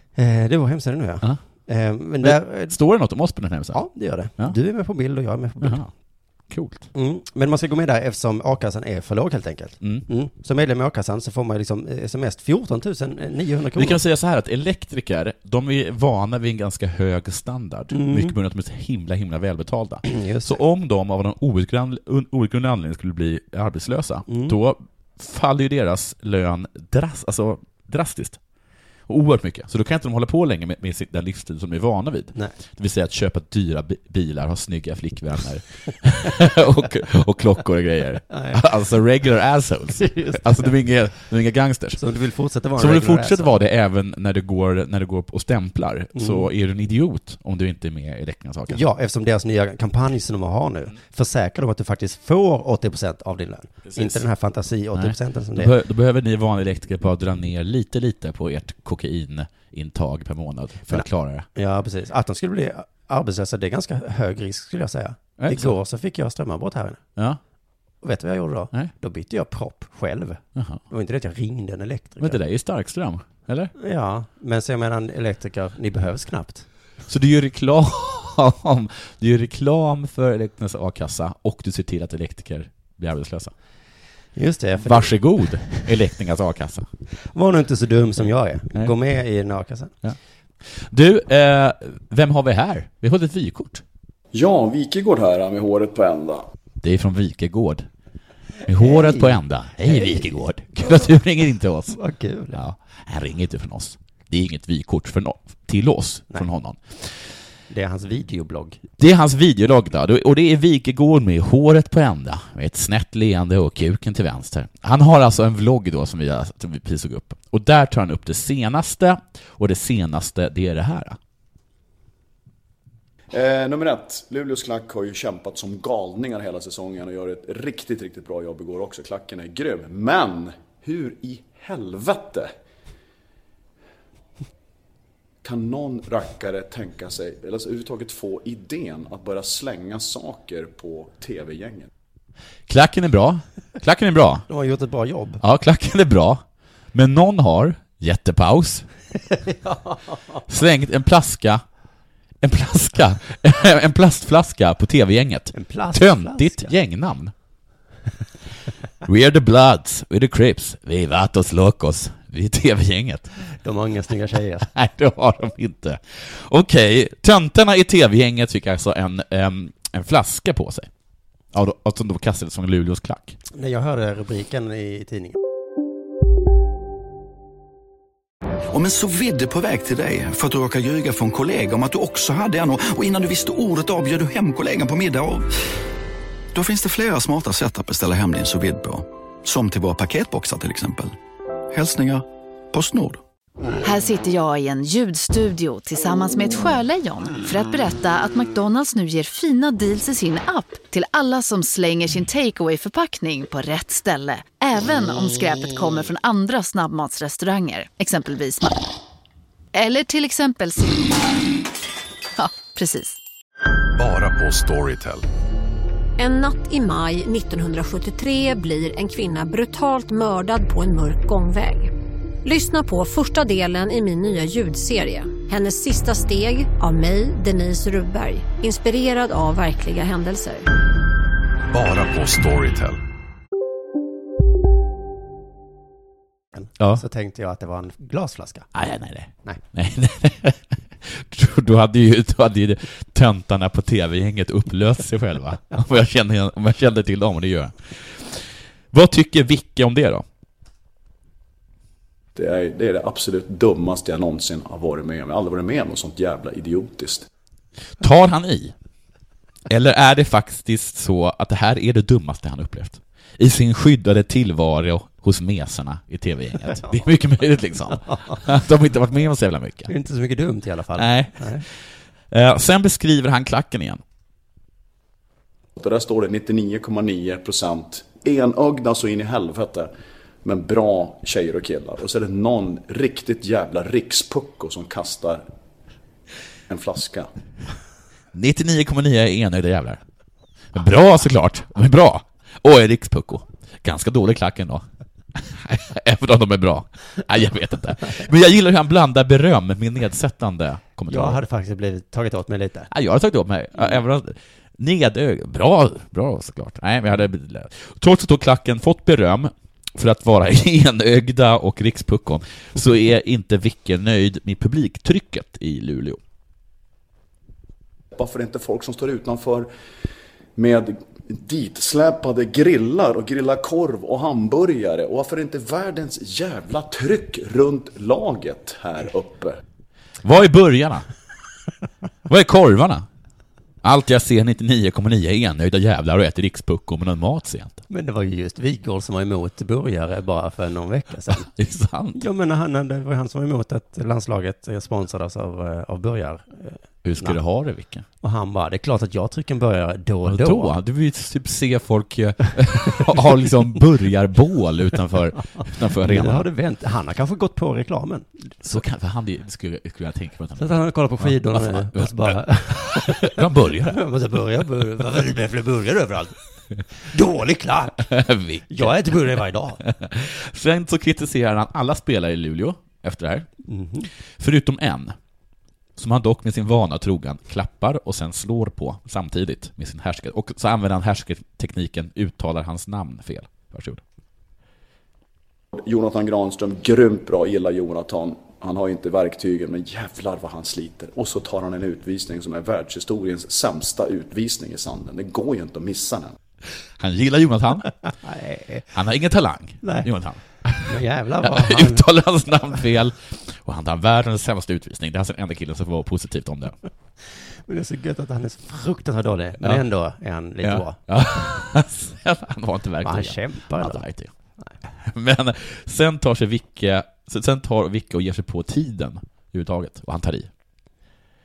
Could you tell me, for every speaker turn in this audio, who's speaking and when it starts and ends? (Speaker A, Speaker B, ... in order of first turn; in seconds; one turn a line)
Speaker A: 0.1-2.8
Speaker B: 2.2-4.6
Speaker A: 3.7-5.8
Speaker B: 5.6-5.9
Speaker B: 6.5-6.9
Speaker A: 6.9-14.0
Speaker B: 9.8-10.1
Speaker B: 13.8-28.4
Speaker A: 17.9-18.3
Speaker A: 20.0-20.6
Speaker A: 24.3-24.6
Speaker B: 29.1-42.0
Speaker A: 38.3-38.6
Speaker A: 40.0-40.6
Speaker A: 42.0-43.6
Speaker B: 42.8-48.8
Speaker A: 46.1-46.5
Speaker A: 48.7-55.7
Speaker B: 53.8-54.2
Speaker B: 54.9-61.5
Speaker A: 60.9-67.0
Speaker B: 65.4-65.7
Speaker A: 68.0-72.4
Speaker B: 70.5-70.8
Speaker B: 72.2-73.7
Speaker A: 73.8-76.7
Speaker B: 77.1-83.5
Speaker A: 84.3-85.9
Speaker B: 84.8-86.9
Speaker A: 87.3-89.9
Speaker B: 90.0-93.8
Speaker C: 94.3-96.4
Speaker B: 96.8-97.9
Speaker B: 98.7-102.0
Speaker A: 98.8-101.2
Speaker A: 101.9-102.6
Speaker B: 102.5-107.1
Speaker A: 107.7-108.8
Speaker B: 109.0-121.2
Speaker C: 123.3-132.5
Speaker C: 135.4-141.9
Speaker B: 142.7-144.4
Speaker A: 144.5-145.4
Speaker B: 145.4-148.9
Speaker A: 149.5-149.9
Speaker B: 150.5-151.6
Speaker B: 152.4-157.3
Speaker A: 155.5-156.7
Speaker B: 159.0-163.3
Speaker A: 163.6-164.7
Speaker B: 164.7-170.9
Speaker B: 171.5-173.4
Speaker A: 173.5-175.4
Speaker D: 178.7-185.5
Speaker D: 186.5-191.1
Speaker D: 191.7-193.2
Speaker E: 193.8-208.7
Speaker E: 209.7-211.1
Speaker E: 212.4-213.2
Speaker F: 214.0-215.2
Speaker G: 216.2-221.9
Speaker G: 222.4-230.7
Speaker F: 231.7-233.0
Speaker A: 236.5-238.7
Speaker B: 238.7-250.2
Speaker C: 252.3-257.3
Speaker B: 258.0-258.7
Speaker B: 259.7-269.9
Speaker A: 267.9-268.4
Speaker A: 269.9-271.6
Speaker B: 270.9-271.7
Speaker B: 272.3-274.0
Speaker C: 275.8-279.9
Speaker C: 280.4-285.4
Speaker C: 286.7-287.3
Speaker B: 288.3-290.0
Speaker B: 290.7-301.4
Speaker A: 301.1-302.9
Speaker B: 302.9-316.2
Speaker C: 318.1-319.7
Speaker C: 320.6-329.6
Speaker B: 330.2-331.1
Speaker B: 332.3-333.1
Speaker B: 333.8-337.8
Speaker A: 337.9-341.5
Speaker B: 341.3-342.2
Speaker A: 342.1-347.4
Speaker B: 347.0-348.1
Speaker A: 348.2-350.7
Speaker B: 350.2-356.5
Speaker A: 355.6-358.3
Speaker B: 358.6-364.0
Speaker A: 360.6-366.4
Speaker A: 367.0-368.1
Speaker B: 368.0-373.5
Speaker A: 368.7-369.8
Speaker A: 373.7-374.1
Speaker B: 374.4-375.1
Speaker B: 375.9-384.0
Speaker C: 385.7-396.4
Speaker B: 396.9-397.9
Speaker A: 398.2-398.9
Speaker B: 398.9-406.8
Speaker A: 399.8-400.1
Speaker A: 400.9-402.0
Speaker A: 407.7-411.0
Speaker B: 410.6-414.3
Speaker A: 413.0-414.0
Speaker B: 414.9-420.5